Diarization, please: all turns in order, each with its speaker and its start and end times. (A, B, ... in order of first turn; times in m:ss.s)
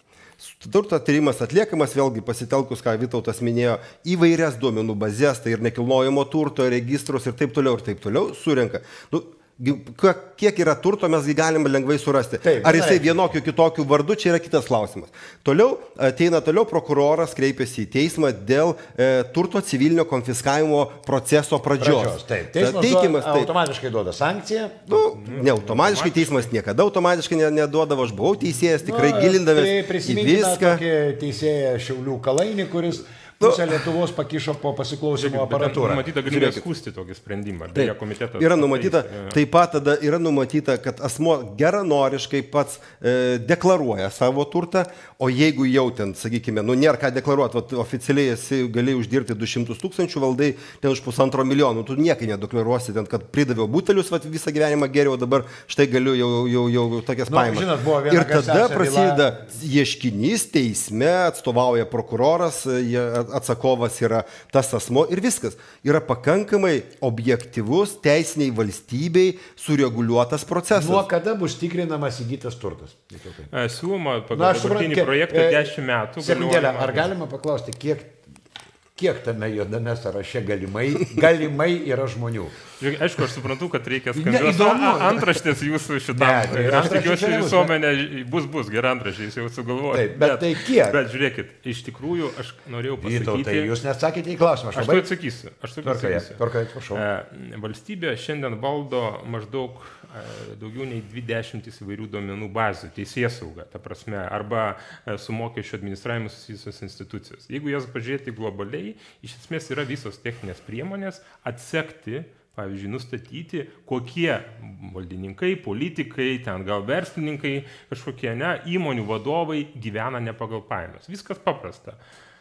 0:00.4-0:23.5 A
0:12.4-0:13.3 B
0:21.8-0:24.9 B
0:24.9-0:30.8 A
0:25.0-0:26.5 C
0:28.8-0:36.0 B
0:35.1-0:39.4 C
0:36.3-0:36.6 A
0:37.7-1:11.0 A
0:57.3-0:59.4 B
1:10.7-1:13.5 B
1:13.5-1:17.1 C
1:14.3-1:18.2 B
1:19.0-1:22.6 B
1:22.8-1:33.7 C
1:24.1-1:25.3 B
1:26.1-1:27.7 B
1:29.9-1:31.0 B
1:33.0-1:35.1 B
1:34.7-1:36.4 C
1:35.8-1:37.0 B
1:36.9-2:02.0 C